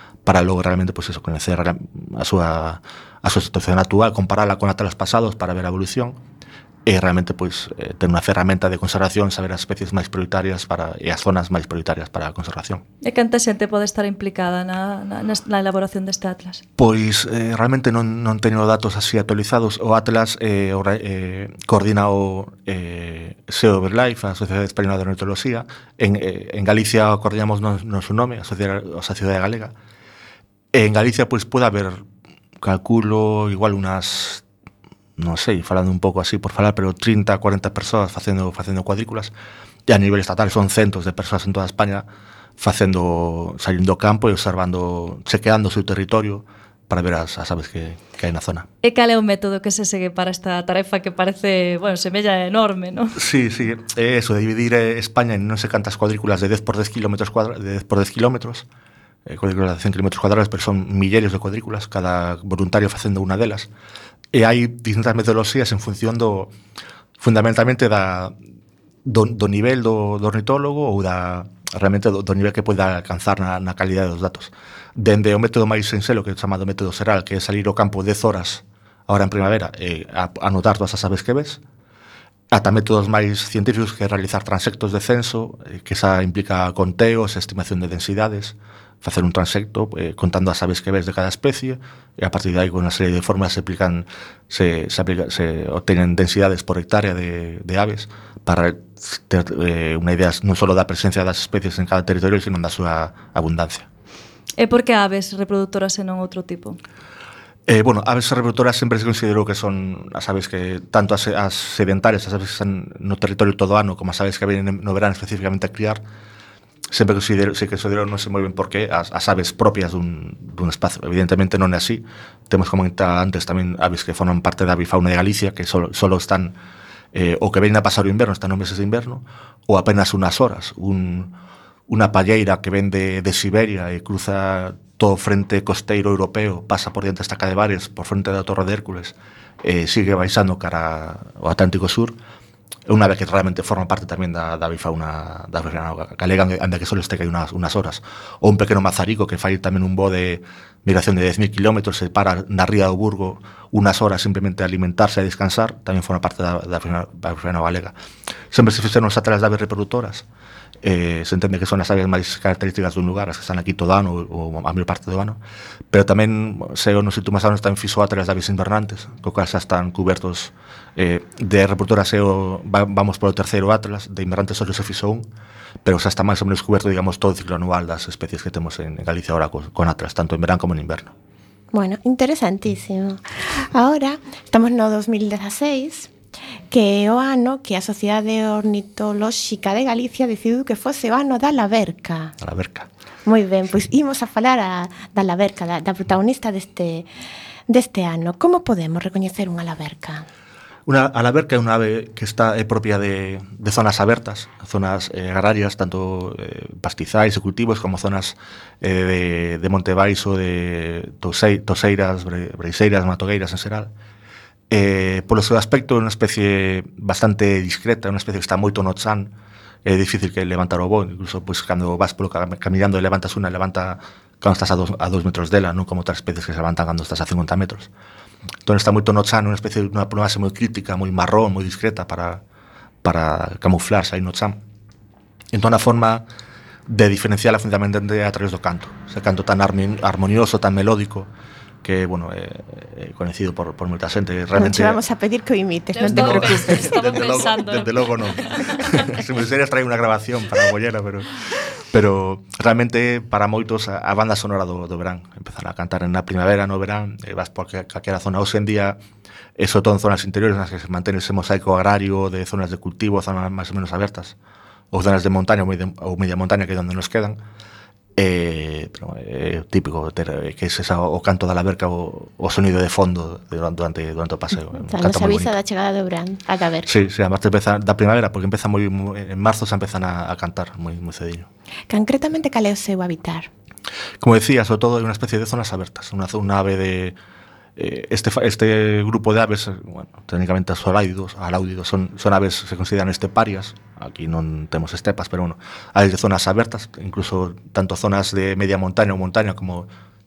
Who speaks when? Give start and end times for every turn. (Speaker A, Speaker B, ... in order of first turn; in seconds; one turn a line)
Speaker A: 0.2-6.2
Speaker A: 6.9-12.8
Speaker B: 13.0-16.6
Speaker A: 16.8-29.8
Speaker A: 30.7-32.0
Speaker A: 32.6-34.4
Speaker A: 35.2-39.3
Speaker A: 39.9-42.1
Speaker A: 42.6-48.7
Speaker B: 48.8-53.2
Speaker A: 53.2-58.6
Speaker A: 59.3-63.7
Speaker A: 64.3-66.5
Speaker A: 67.2-68.3
Speaker A: 69.0-81.6
Speaker A: 82.5-103.9
Speaker B: 104.6-106.8
Speaker A: 107.7-116.0
Speaker A: 116.9-126.5
Speaker A: 127.1-131.3
Speaker A: 131.9-142.2
Speaker A: 142.9-157.9
Speaker A: 158.5-160.2
Speaker A: 160.8-165.4
Speaker A: 165.9-175.2
Speaker A: 175.8-181.1
Speaker C: 181.7-186.1
Speaker C: 186.7-192.4
Speaker A: 192.4-192.9
Speaker C: 193.2-197.1
Speaker C: 197.7-200.3
Speaker A: 200.9-213.9
Speaker A: 214.7-219.3
Speaker A: 219.8-227.9
Speaker A: 228.7-232.4
Speaker A: 233.0-234.6
Speaker A: 235.5-236.2
Speaker A: 236.9-241.3
Speaker A: 241.8-245.0
Speaker C: 244.6-247.6
Speaker B: 245.9-249.1
Speaker A: 246.1-259.0
Speaker A: 259.6-264.4
Speaker A: 264.9-267.4
Speaker A: 268.2-275.5
Speaker C: 274.8-276.9
Speaker A: 276.9-281.5
Speaker C: 281.9-283.5
Speaker A: 284.2-287.1
Speaker A: 287.8-299.9